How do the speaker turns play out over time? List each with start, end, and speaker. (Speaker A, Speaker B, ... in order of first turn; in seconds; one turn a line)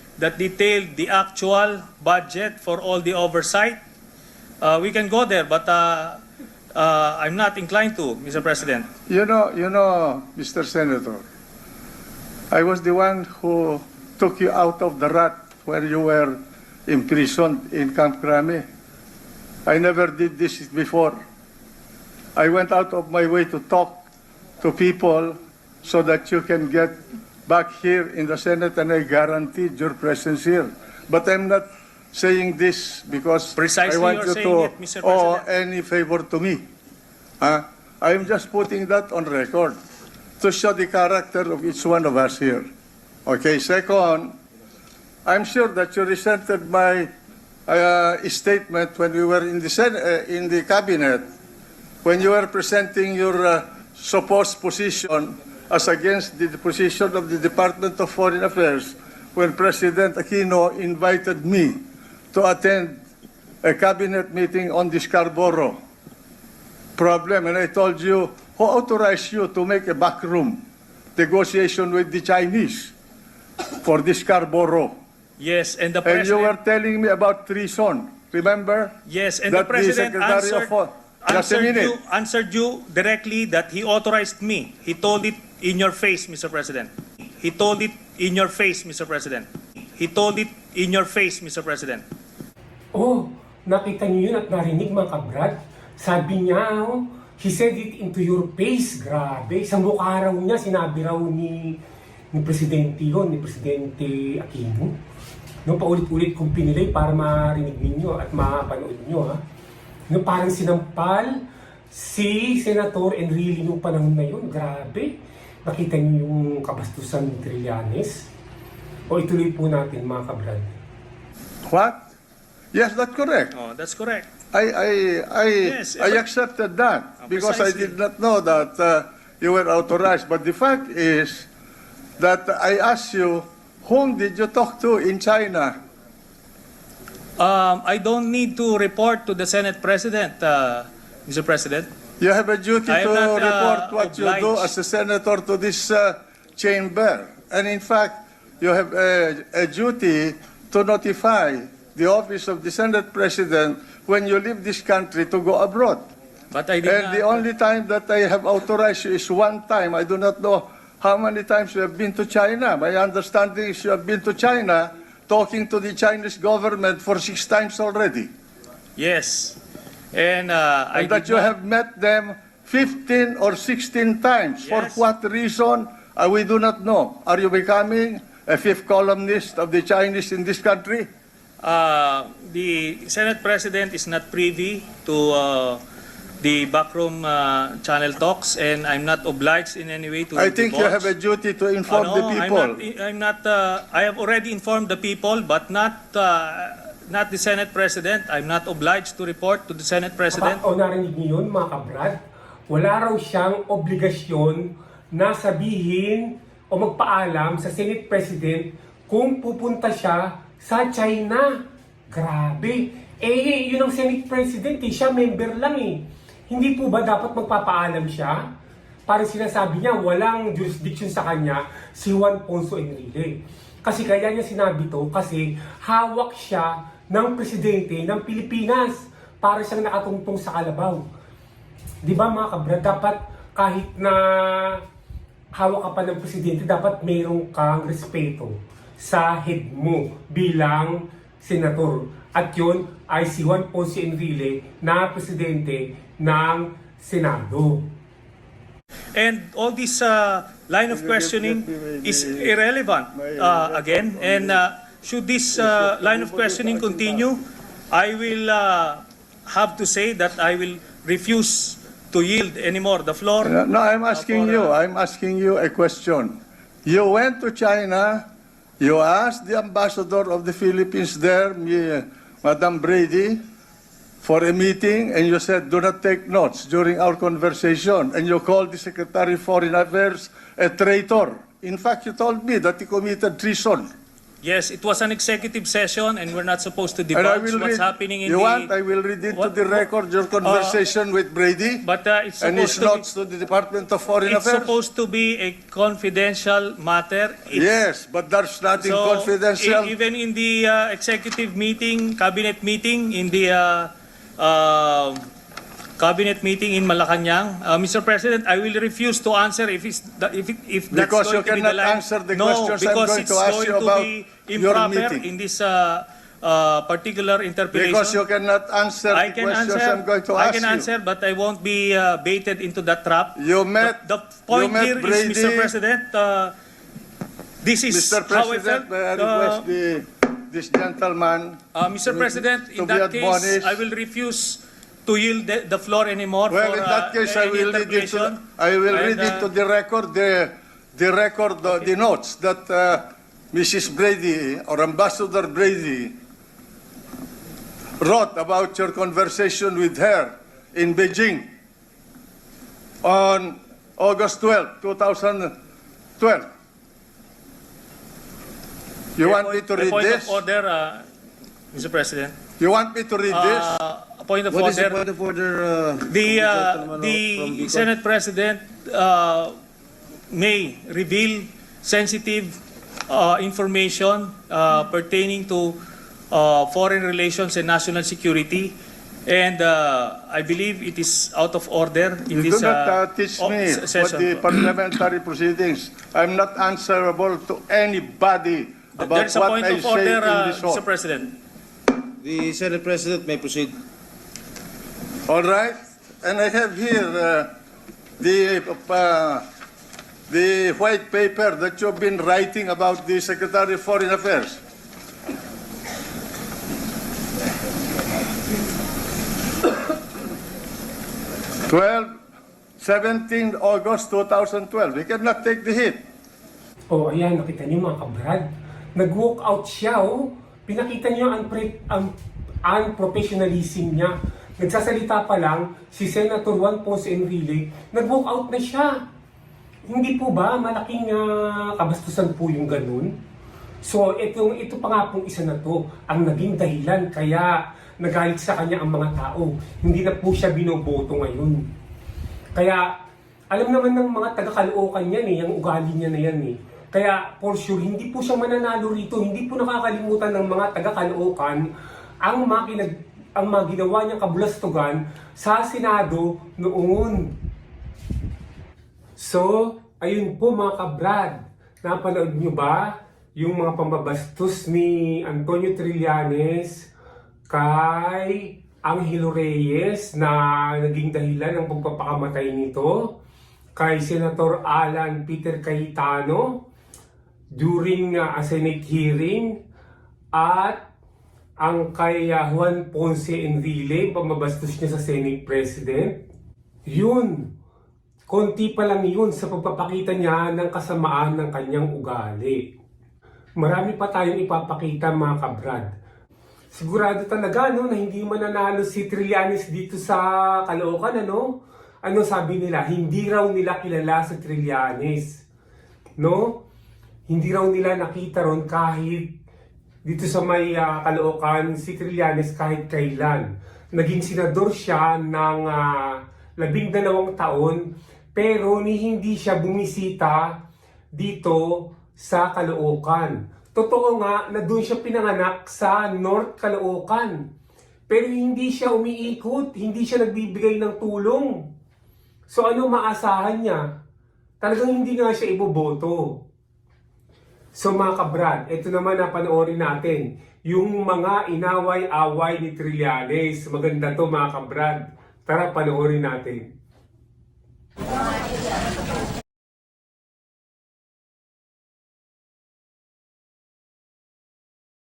Speaker A: 0.2-3.8
Speaker A: 4.6-6.2
Speaker A: 6.8-8.9
Speaker B: 9.1-11.2
Speaker B: 12.5-18.6
Speaker B: 19.7-21.2
Speaker B: 22.4-24.0
Speaker B: 24.6-36.6
Speaker A: 33.6-35.5
Speaker B: 37.4-39.8
Speaker B: 40.4-42.7
Speaker B: 43.3-44.4
Speaker B: 45.2-47.1
Speaker B: 47.7-51.3
Speaker B: 52.0-63.0
Speaker B: 63.6-65.8
Speaker B: 67.0-70.6
Speaker B: 71.2-72.9
Speaker B: 73.8-75.0
Speaker A: 75.4-76.5
Speaker B: 76.0-79.0
Speaker A: 79.1-80.7
Speaker B: 79.5-82.0
Speaker A: 81.2-92.0
Speaker C: 93.0-101.8
Speaker C: 102.3-105.0
Speaker C: 105.7-109.4
Speaker C: 110.1-111.4
Speaker C: 111.9-118.3
Speaker C: 119.1-120.8
Speaker B: 121.7-122.1
Speaker B: 122.7-123.5
Speaker A: 123.5-124.3
Speaker B: 124.5-131.5
Speaker A: 125.6-126.2
Speaker A: 127.3-128.0
Speaker B: 132.2-135.8
Speaker A: 137.4-141.9
Speaker B: 142.2-156.1
Speaker A: 142.9-144.7
Speaker A: 156.5-157.4
Speaker B: 156.8-168.3
Speaker A: 169.0-169.6
Speaker A: 170.1-171.5
Speaker B: 170.9-181.1
Speaker A: 174.6-175.0
Speaker A: 181.6-185.8
Speaker A: 186.4-191.1
Speaker B: 190.3-192.8
Speaker A: 191.9-200.6
Speaker C: 200.3-202.2
Speaker C: 202.7-211.5
Speaker C: 212.1-218.4
Speaker C: 219.1-231.1
Speaker C: 232.0-234.8
Speaker C: 235.6-247.9
Speaker A: 249.2-257.4
Speaker B: 250.9-252.6
Speaker B: 253.1-254.6
Speaker B: 255.5-257.3
Speaker A: 257.9-263.6
Speaker B: 263.4-268.3
Speaker A: 264.1-264.8
Speaker B: 268.8-273.4
Speaker B: 274.2-283.9
Speaker A: 284.4-288.7
Speaker B: 287.1-291.9
Speaker A: 289.3-289.8
Speaker A: 290.4-290.8
Speaker A: 291.8-293.0
Speaker B: 292.4-294.7
Speaker A: 294.3-297.7
Speaker B: 297.5-299.9
Speaker A: 298.8-305.2
Speaker A: 306.0-318.2
Speaker B: 310.9-315.3
Speaker B: 317.7-320.9
Speaker A: 319.1-326.5
Speaker B: 323.4-325.7
Speaker A: 327.6-329.6
Speaker B: 327.9-333.8
Speaker A: 331.8-339.5
Speaker B: 336.5-346.2
Speaker B: 348.0-351.5
Speaker B: 353.0-355.6
Speaker B: 356.2-356.5
Speaker B: 359.2-360.4
Speaker A: 359.2-361.1
Speaker A: 361.7-362.4
Speaker B: 362.6-363.8
Speaker A: 363.3-365.0
Speaker D: 364.5-367.9
Speaker A: 366.1-369.6
Speaker A: 370.3-372.6
Speaker A: 373.1-375.8
Speaker A: 376.3-378.7
Speaker A: 379.3-384.5
Speaker B: 382.3-390.8
Speaker A: 389.0-391.3
Speaker D: 392.2-393.8
Speaker B: 395.3-397.5
Speaker B: 398.2-399.4
Speaker B: 400.3-404.6
Speaker B: 411.7-412.1
Speaker B: 412.8-416.0
Speaker C: 416.9-422.1
Speaker C: 422.7-428.9
Speaker C: 429.9-433.1
Speaker C: 433.9-441.6
Speaker C: 442.6-442.9
Speaker C: 443.5-451.6
Speaker C: 452.2-457.3
Speaker C: 459.2-466.9
Speaker C: 467.5-473.1
Speaker C: 473.8-476.6
Speaker C: 477.6-479.6
Speaker C: 480.4-480.8
Speaker C: 481.6-486.1
Speaker C: 486.9-487.4
Speaker C: 488.3-492.6
Speaker C: 493.6-495.9
Speaker C: 496.7-501.5
Speaker C: 502.1-505.4
Speaker C: 506.2-506.6
Speaker C: 507.3-509.3
Speaker C: 510.1-517.8
Speaker C: 518.4-520.5
Speaker C: 521.2-527.4
Speaker C: 528.1-531.5
Speaker C: 532.5-533.8
Speaker C: 534.6-536.2
Speaker C: 537.8-546.6